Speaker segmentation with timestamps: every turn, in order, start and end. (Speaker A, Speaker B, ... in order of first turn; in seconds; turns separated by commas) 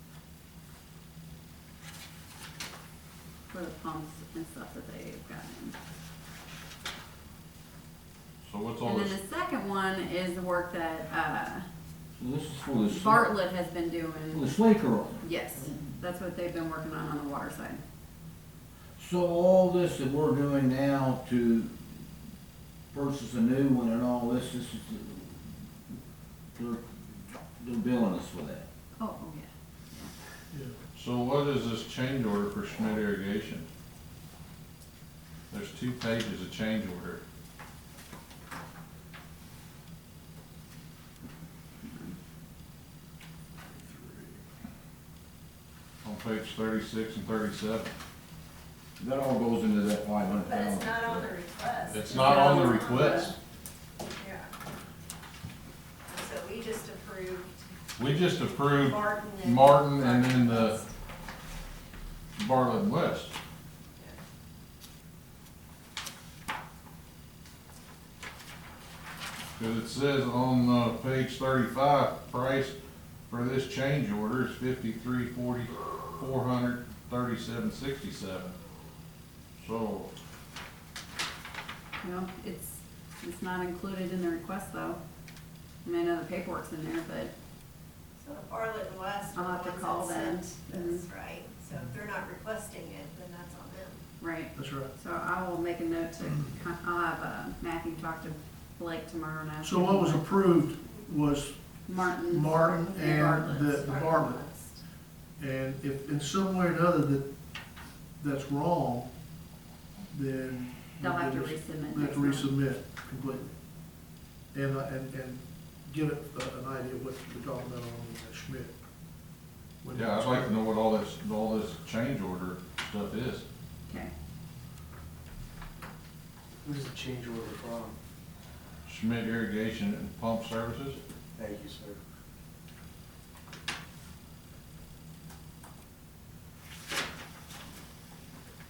Speaker A: 3.5-5.8, Speaker B: 8.4-9.2, Speaker A: 8.8-11.7, Speaker C: 12.1-13.3, Speaker A: 12.9-14.5, Speaker C: 14.3-15.2, Speaker A: 15.2-17.8, Speaker C: 19.0-21.8, Speaker C: 22.9-25.4, Speaker C: 26.6-26.8, Speaker C: 27.6-28.6, Speaker A: 29.0-30.1, Speaker D: 30.5-30.8, Speaker B: 30.9-33.7, Speaker B: 35.5-37.2, Speaker A: 41.8-42.1, Speaker B: 46.0-47.9, Speaker C: 49.0-51.3, Speaker E: 50.3-53.3, Speaker B: 51.8-53.4, Speaker E: 54.1-54.5, Speaker E: 56.1-57.7, Speaker B: 58.0-60.8, Speaker E: 58.7-60.9, Speaker B: 62.4-63.3, Speaker B: 69.5-72.8, Speaker B: 73.3-78.5, Speaker B: 79.6-80.1, Speaker A: 82.0-85.0, Speaker A: 85.8-87.3, Speaker E: 88.2-94.0, Speaker A: 89.3-91.0, Speaker A: 94.2-100.4, Speaker D: 94.5-94.9, Speaker D: 99.6-104.5, Speaker A: 101.8-103.8, Speaker E: 103.7-104.8, Speaker D: 105.4-107.3, Speaker D: 108.2-109.1, Speaker D: 110.1-113.5, Speaker A: 111.0-112.5, Speaker D: 114.5-118.8, Speaker D: 119.8-120.6, Speaker B: 119.9-123.4, Speaker A: 123.9-124.1, Speaker F: 126.6-128.0, Speaker B: 128.8-131.0, Speaker F: 131.3-132.0